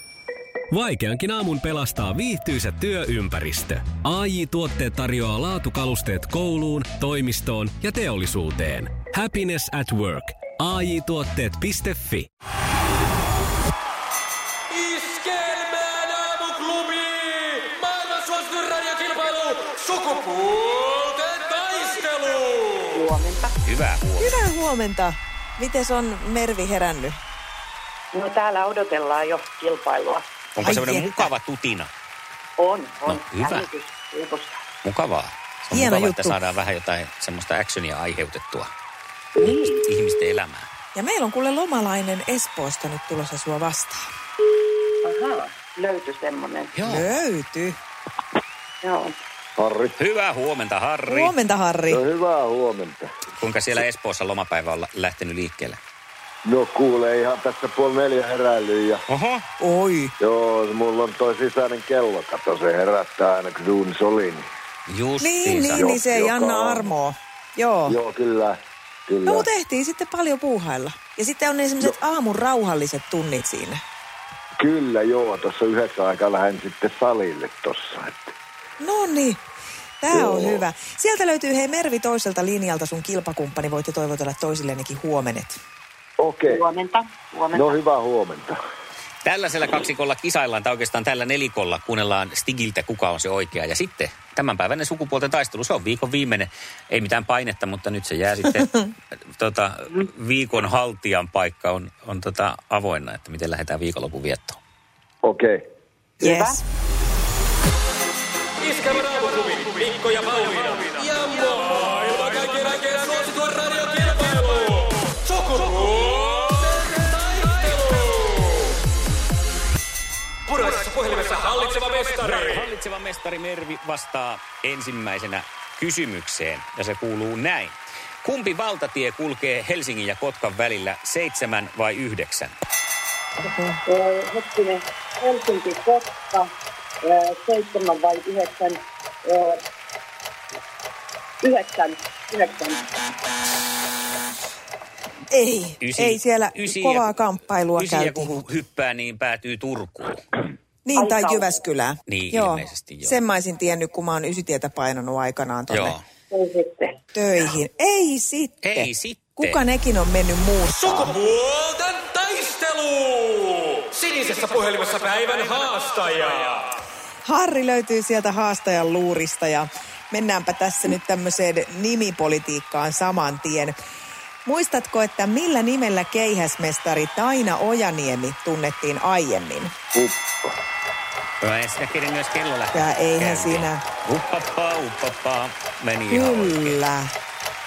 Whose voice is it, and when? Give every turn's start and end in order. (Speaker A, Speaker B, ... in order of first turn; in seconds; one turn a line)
Speaker A: 0.7-12.3
Speaker B: 14.7-22.9
Speaker C: 22.9-23.5
Speaker D: 23.6-24.4
Speaker E: 24.2-27.2
Speaker C: 28.1-30.2
Speaker D: 30.6-31.9
Speaker E: 30.6-31.3
Speaker C: 32.6-34.6
Speaker D: 33.1-33.7
Speaker D: 34.8-38.7
Speaker E: 35.7-36.4
Speaker C: 39.4-39.9
Speaker D: 39.4-40.7
Speaker E: 41.0-44.1
Speaker C: 45.0-46.7
Speaker D: 46.8-47.2
Speaker E: 46.8-47.8
Speaker C: 48.8-49.2
Speaker F: 49.6-50.0
Speaker D: 50.0-51.4
Speaker E: 51.1-52.0
Speaker F: 51.9-53.1
Speaker D: 53.4-55.8
Speaker F: 56.5-59.0
Speaker D: 59.1-59.4
Speaker E: 59.6-60.1
Speaker F: 60.2-64.5
Speaker D: 64.9-66.0
Speaker E: 65.2-68.0
Speaker F: 65.7-66.9
Speaker F: 67.9-69.5
Speaker E: 69.3-73.8
Speaker F: 74.6-78.3
Speaker E: 78.8-79.4
Speaker E: 80.0-85.6
Speaker F: 80.1-80.6
Speaker F: 86.2-86.7
Speaker C: 86.9-87.5
Speaker F: 87.5-88.6
Speaker D: 89.2-98.7
Speaker D: 99.4-104.6
Speaker F: 105.2-105.6
Speaker E: 106.2-106.6
Speaker B: 108.6-118.7
Speaker B: 120.5-122.2
Speaker D: 122.0-132.5
Speaker E: 133.4-133.8
Speaker C: 133.8-136.5
Speaker C: 137.0-139.6
Speaker C: 141.4-142.9
Speaker E: 145.3-148.4
Speaker D: 145.8-147.1
Speaker D: 147.8-150.2
Speaker E: 150.8-156.0
Speaker C: 150.9-151.5
Speaker D: 152.1-153.2
Speaker D: 155.7-156.0
Speaker C: 156.3-157.0
Speaker E: 157.1-161.2
Speaker D: 158.6-159.6
Speaker B: 160.9-166.6
Speaker E: 167.2-173.7
Speaker E: 174.5-179.7
Speaker F: 179.9-180.6
Speaker D: 181.4-186.8
Speaker E: 182.7-183.8
Speaker E: 186.1-187.1